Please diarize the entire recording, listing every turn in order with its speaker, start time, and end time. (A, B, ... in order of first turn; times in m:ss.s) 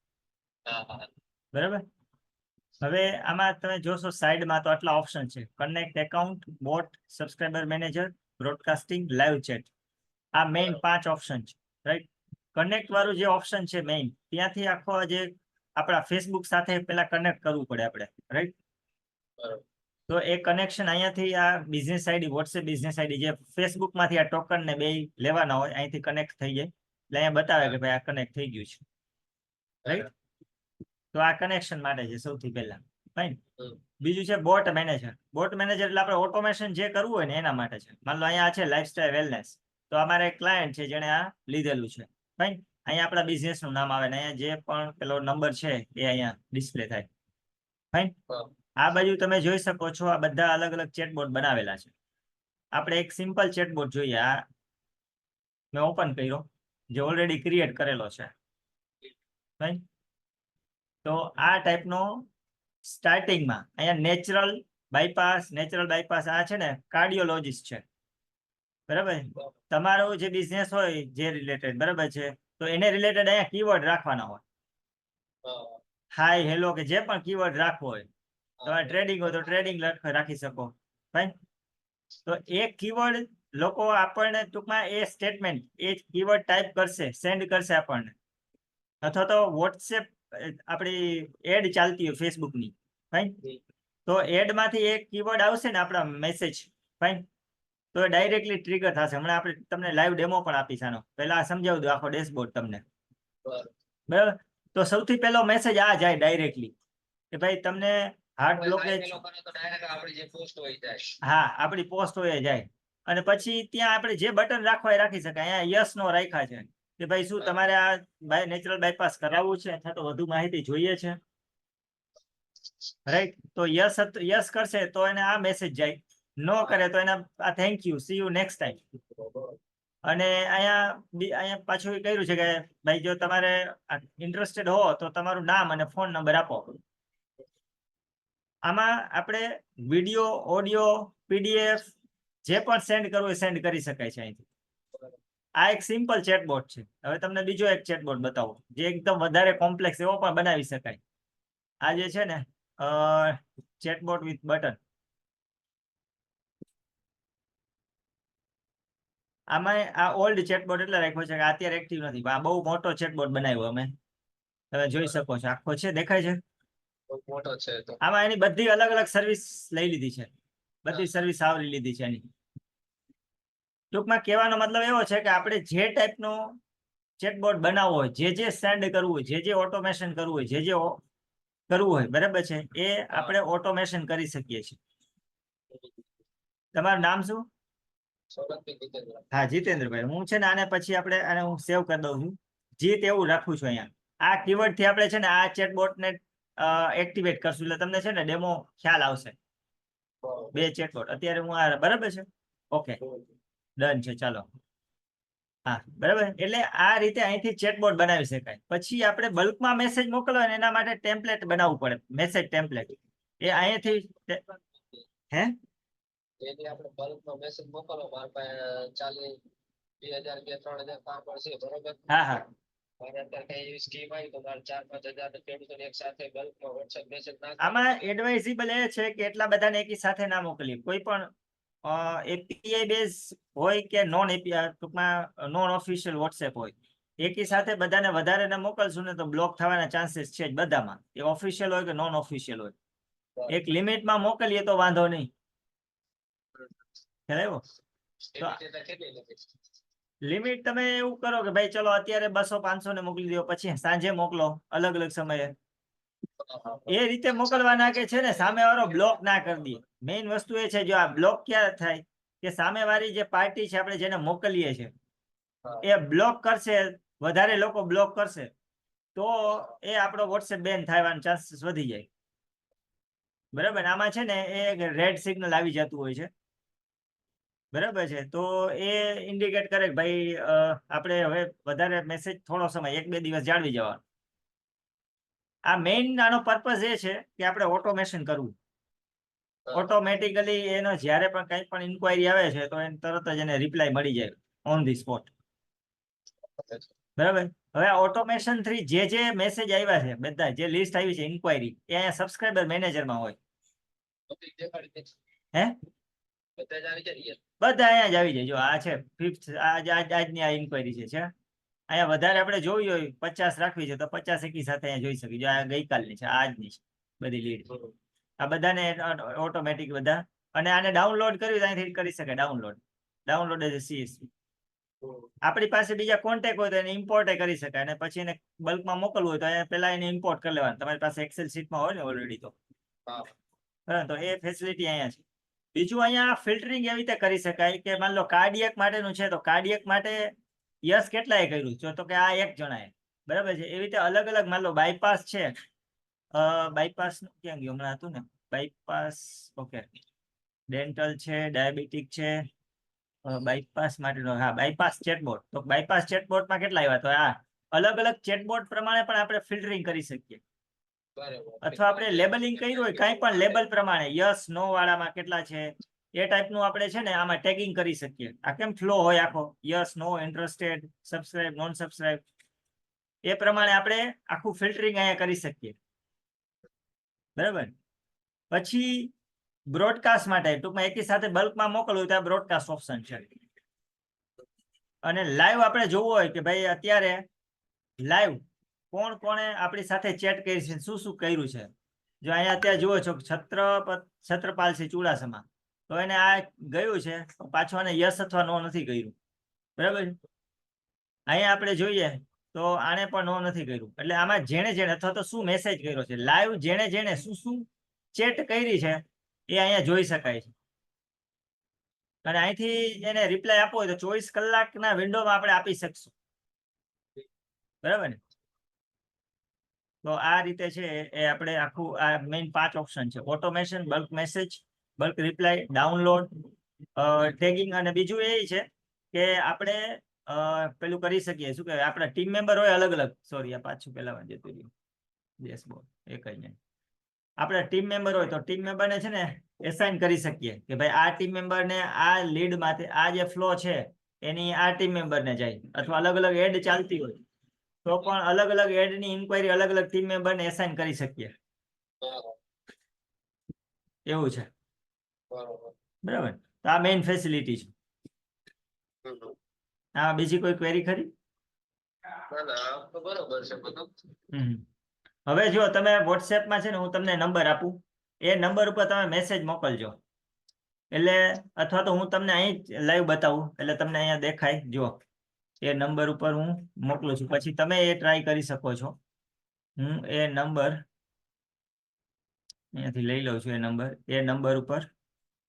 0:00.7-0:01.1 A
0:01.5-0:01.8 B
0:02.8-0:09.7 B
0:10.4-0:18.5 B
0:20.1-0:28.8 B
0:31.1-0:33.4 B
0:34.0-0:47.1 B
0:48.8-0:51.9 B
0:52.7-0:54.4 B
0:55.7-0:58.3 B
1:01.0-1:02.3 B
1:02.8-1:07.8 B
1:08.9-1:14.4 B
1:15.4-1:15.8 A
1:16.2-1:18.1 B
1:18.6-1:19.2 A
1:18.6-1:21.3 B
1:22.2-1:28.1 B
1:29.0-1:33.3 B
1:34.0-1:37.2 B
1:37.9-1:42.8 B
1:43.4-1:43.7 A
1:44.1-1:46.7 B
1:47.3-1:49.2 B
1:48.5-1:51.2 A
1:51.2-2:01.2 B
2:03.0-2:08.8 B
2:09.2-2:09.6 A
2:10.0-2:16.8 B
2:18.7-2:21.9 B
2:22.4-2:24.5 B
2:25.6-2:31.0 B
2:31.8-2:34.8 B
2:39.5-2:43.9 B
2:44.7-2:46.4 B
2:47.1-2:48.0 A
2:48.0-2:50.3 B
2:50.8-2:52.2 B
2:53.9-2:56.5 B
2:57.2-3:01.0 B
3:01.7-3:04.8 B
3:05.7-3:06.0 A
3:06.7-3:07.4 B
3:08.3-3:09.2 A
3:09.3-3:19.4 B
3:20.2-3:20.6 A
3:20.5-3:23.0 B
3:23.8-3:24.4 B
3:25.6-3:34.4 B
3:36.4-3:39.4 A
3:40.0-3:42.1 A
3:42.1-3:42.5 B
3:43.0-3:48.1 A
3:47.6-3:51.3 B
3:51.8-4:02.7 B
4:03.5-4:05.3 B
4:07.3-4:07.6 B
4:08.3-4:09.5 A
4:10.2-4:15.5 B
4:16.4-4:19.6 A
4:16.9-4:24.9 B
4:25.8-4:28.5 B
4:29.1-4:32.0 B
4:33.5-4:36.3 B
4:37.7-4:44.0 B
4:45.7-4:48.5 B
4:49.7-4:55.3 B
4:56.6-4:56.9 A
4:57.2-5:03.4 B
5:04.3-5:05.1 A
5:06.6-5:07.4 A
5:07.6-5:11.3 B
5:11.9-5:17.7 B
5:17.7-5:17.9 A
5:18.4-5:24.3 B
5:25.0-5:25.3 A
5:25.4-5:32.5 B
5:33.1-5:33.3 A
5:33.9-5:35.2 B
5:35.7-5:40.3 B
5:40.9-5:45.5 B
5:46.3-5:49.8 B
5:50.7-5:52.3 B
5:53.2-6:00.4 B
6:01.2-6:03.6 A
6:01.6-6:12.2 B
6:13.3-6:15.7 B
6:17.4-6:17.7 B
6:18.5-6:19.1 B
6:19.7-6:23.3 B
6:25.0-6:27.2 B
6:28.0-6:28.4 B
6:28.9-6:31.7 B
6:32.2-6:39.1 B
6:39.8-6:40.2 B
6:41.3-6:50.5 B
6:52.2-6:56.1 B
6:57.8-6:58.2 B
7:00.0-7:06.3 B
7:07.0-7:14.7 B
7:15.4-7:16.6 B
7:17.4-7:27.2 B
7:27.8-7:31.3 B
7:32.0-7:32.4 A
7:34.1-7:34.5 B
7:35.3-7:35.7 A
7:36.0-7:37.7 B
7:39.0-7:39.4 A
7:40.0-7:41.1 B
7:42.3-7:43.9 A
7:44.3-7:44.6 B
7:45.3-7:50.0 B
7:50.9-7:55.0 B
7:55.6-7:59.0 B
7:59.8-8:00.8 B
8:02.7-8:04.9 B